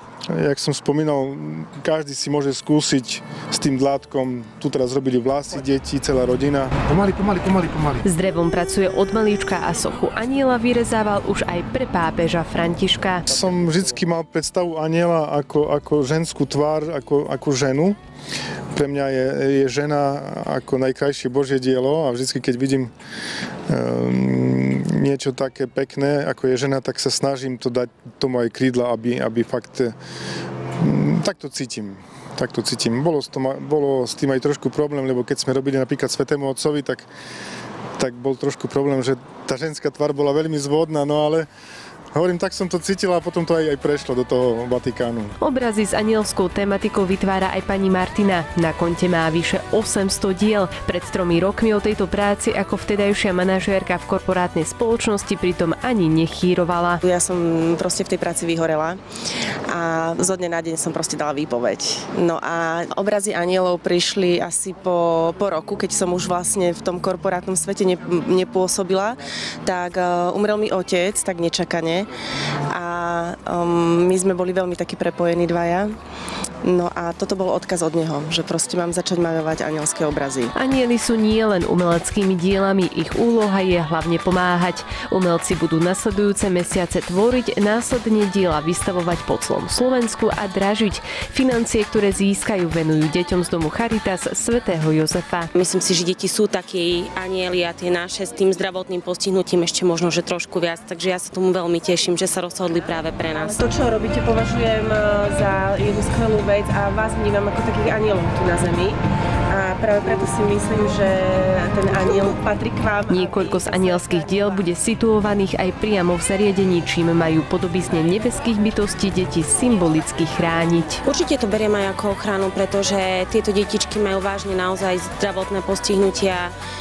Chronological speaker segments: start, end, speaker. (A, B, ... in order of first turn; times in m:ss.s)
0:00.3-0:08.0 A
0:08.0-0:13.2 B
0:13.3-0:18.0 A
0:18.7-0:22.9 A
0:23.7-0:29.9 A
0:30.8-0:37.1 A
0:38.0-0:41.5 A
0:42.1-0:45.3 A
0:45.4-0:57.0 B
0:57.0-0:59.0 C
0:59.7-1:12.1 C
1:12.7-1:15.9 C
1:16.6-1:20.5 C
1:20.5-1:35.5 B
1:35.5-1:43.6 D
1:43.3-1:54.7 C
1:53.1-2:01.0 B
2:01.0-2:06.5 D